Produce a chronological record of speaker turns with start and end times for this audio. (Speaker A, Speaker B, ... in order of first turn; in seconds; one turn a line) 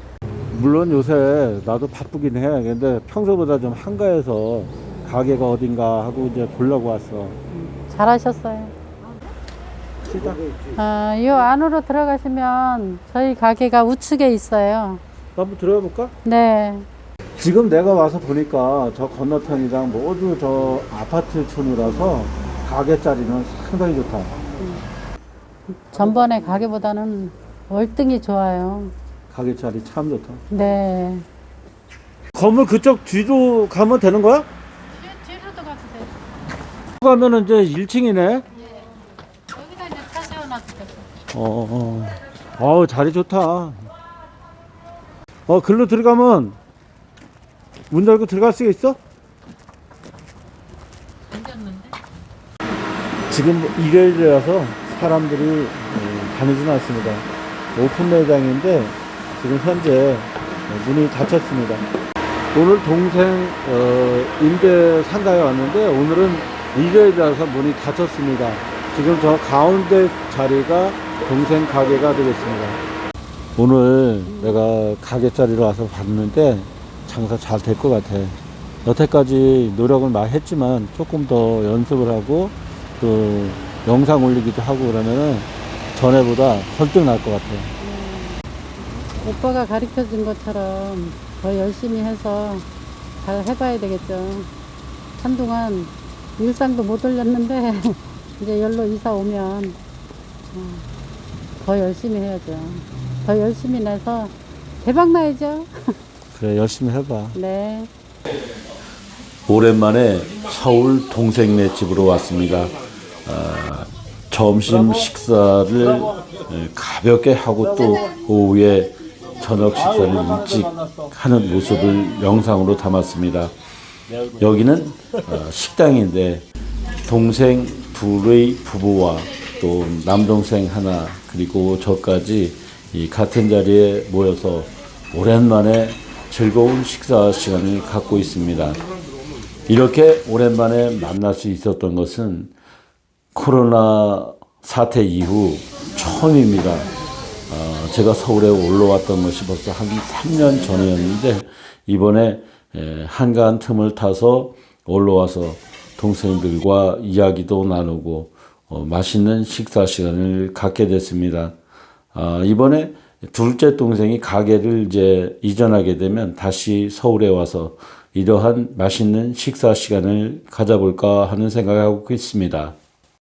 Speaker A: 0.5-7.4
Speaker B: 7.5-8.7
Speaker A: 10.0-10.5
Speaker B: 10.8-15.0
Speaker A: 15.3-16.1
Speaker B: 16.2-16.9
Speaker A: 17.4-24.3
Speaker B: 24.6-24.8
Speaker B: 25.7-28.9
Speaker A: 25.9-26.6
Speaker A: 29.3-30.4
Speaker B: 30.5-31.2
Speaker A: 32.3-34.5
Speaker B: 34.9-36.1
Speaker A: 37.0-38.4
Speaker B: 38.5-38.9
Speaker B: 39.5-41.1
Speaker A: 41.3-43.9
Speaker A: 45.5-46.5
Speaker A: 47.9-49.0
Speaker B: 51.3-52.0
Speaker A: 53.3-57.2
Speaker A: 57.7-61.8
Speaker A: 62.5-72.8
Speaker A: 73.6-87.7
Speaker B: 74.3-74.6
Speaker B: 87.8-88.4
Speaker B: 89.2-92.7
Speaker B: 93.2-94.5
Speaker B: 95.2-99.8
Speaker B: 100.5-100.8
Speaker B: 101.6-106.0
Speaker A: 106.3-107.4
Speaker B: 107.3-107.9
Speaker C: 109.5-123.5
Speaker A: 117.6-118.1
Speaker A: 119.7-121.1
Speaker A: 124.1-124.4
Speaker C: 124.4-126.4
Speaker C: 127.0-138.8
Speaker C: 139.7-142.5
Speaker C: 143.3-146.9
Speaker C: 147.5-161.5
Speaker C: 162.1-172.7